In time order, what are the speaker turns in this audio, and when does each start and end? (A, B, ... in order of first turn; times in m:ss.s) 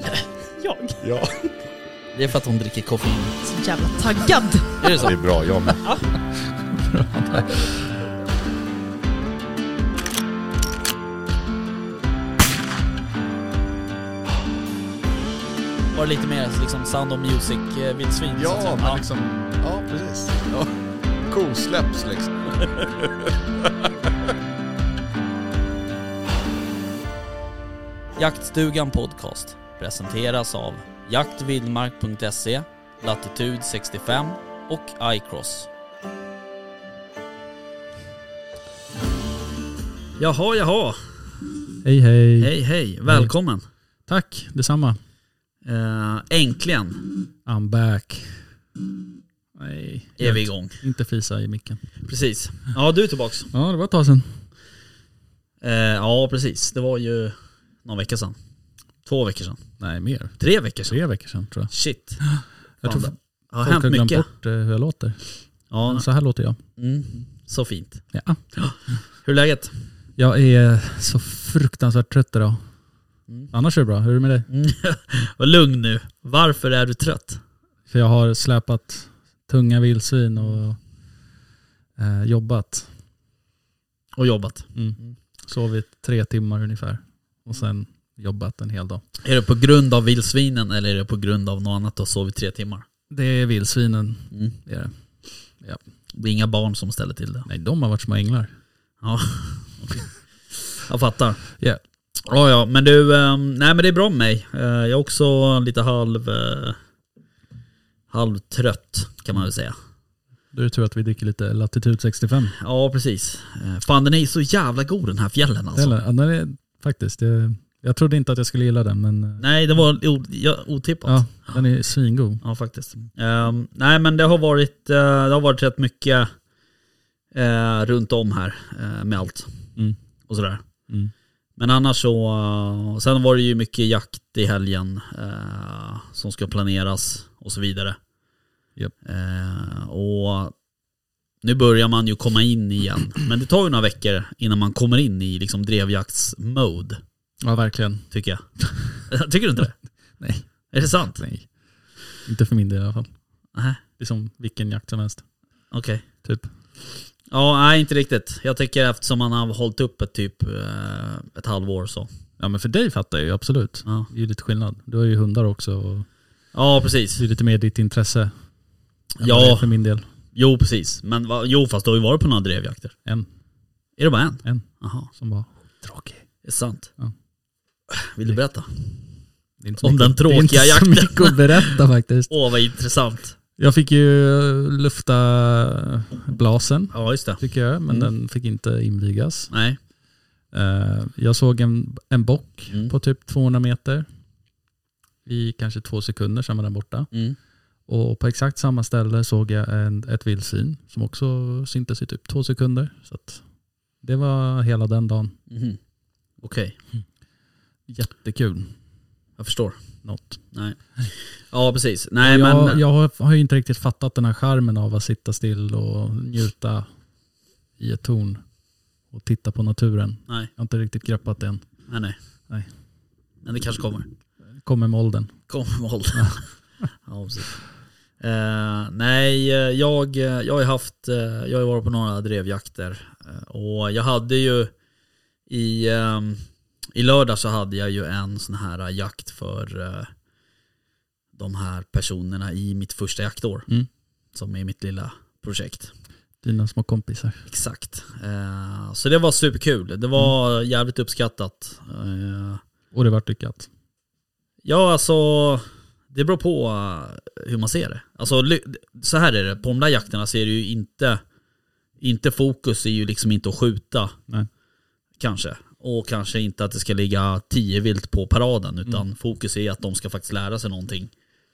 0:00.6-0:01.0 A
0:01.0-0:01.5 B
0:02.1-0:03.4 C
0:03.5-0:05.1 A
0:04.8-0:05.1 C
0:05.0-0:05.9 B
0:06.7-0:07.9 D
0:15.9-0:19.0 C
0:18.4-0:20.7 B
0:21.3-0:23.9 B
0:28.2-0:35.7 C
0:40.2-0:41.4 C
0:41.8-0:42.5 D
0:42.4-0:43.6 C
0:43.0-0:43.3 D
0:44.1-0:45.0 D
0:45.6-0:47.1 C
0:47.4-0:48.4 D
0:49.5-0:51.8 D
0:50.2-0:50.8 C
0:52.0-0:53.5 C
0:53.5-0:54.4 D
0:55.6-0:58.4 C
0:59.0-0:59.6 C
0:59.8-1:01.7 D
1:00.4-1:01.0 C
1:01.7-1:02.3 C
1:02.3-1:05.3 D
1:02.8-1:04.3 C
1:05.7-1:06.0 C
1:05.8-1:06.6 D
1:06.8-1:08.0 C
1:08.1-1:08.4 D
1:08.5-1:09.7 C
1:10.2-1:12.6 D
1:13.5-1:14.5 D
1:14.5-1:17.4 C
1:17.9-1:20.8 D
1:22.0-1:22.9 D
1:24.2-1:25.1 C
1:24.7-1:29.0 D
1:29.2-1:32.8 C
1:33.1-1:34.9 D
1:36.1-1:37.5 C
1:37.4-1:38.5 D
1:39.0-1:40.1 C
1:40.6-1:41.4 C
1:42.2-1:46.8 C
1:48.1-1:49.8 C
1:50.5-1:52.5 D
1:52.6-1:56.0 C
1:55.7-1:59.4 D
1:59.4-2:01.6 C
2:01.0-2:02.4 D
2:02.4-2:06.3 C
2:07.3-2:09.6 C
2:10.3-2:10.6 C
2:11.6-2:18.0 C
2:19.0-2:20.5 C
2:21.4-2:27.0 C
2:27.4-2:28.1 D
2:28.1-2:28.4 C
2:28.6-2:29.0 D
2:29.0-2:29.8 C
2:30.2-2:31.5 D
2:30.7-2:31.2 C
2:32.2-2:33.1 D
2:33.5-2:33.8 C
2:34.0-2:35.2 D
2:35.7-2:36.0 C
2:36.2-2:36.5 D
2:37.3-2:42.1 C
2:42.4-2:46.1 D
2:46.5-2:47.2 C
2:47.2-2:48.3 D
2:49.2-2:49.7 C
2:49.2-2:50.0 D
2:50.3-2:53.0 C
2:54.0-2:55.1 C
2:54.4-2:56.2 D
2:56.4-2:56.9 C
2:57.9-2:59.0 C
2:59.6-3:02.3 D
2:59.8-3:01.7 C
3:02.3-3:03.4 C
3:03.6-3:09.5 D
3:06.9-3:08.1 C
3:09.5-3:09.8 C
3:10.5-3:14.1 D
3:15.2-3:17.1 D
3:17.1-3:17.4 C
3:17.9-3:23.4 D
3:24.0-3:25.3 D
3:25.5-3:25.8 C
3:26.4-3:26.8 C
3:27.9-3:28.7 D
3:29.4-3:29.8 C
3:30.0-3:30.4 D
3:30.5-3:32.8 C
3:32.2-3:36.9 D
3:37.8-3:38.4 D
3:39.1-3:41.6 D
3:41.9-3:42.2 C
3:43.4-3:44.1 C
3:44.5-3:45.4 D
3:45.5-3:46.5 C
3:47.0-3:47.6 C
3:48.2-3:54.7 C
3:55.5-4:00.1 C
4:01.3-4:03.7 C
4:04.3-4:05.9 C
4:06.4-4:07.4 D
4:07.4-4:12.6 C
4:12.9-4:13.7 D
4:14.6-4:21.2 C
4:22.0-4:24.2 C
4:25.2-4:31.1 C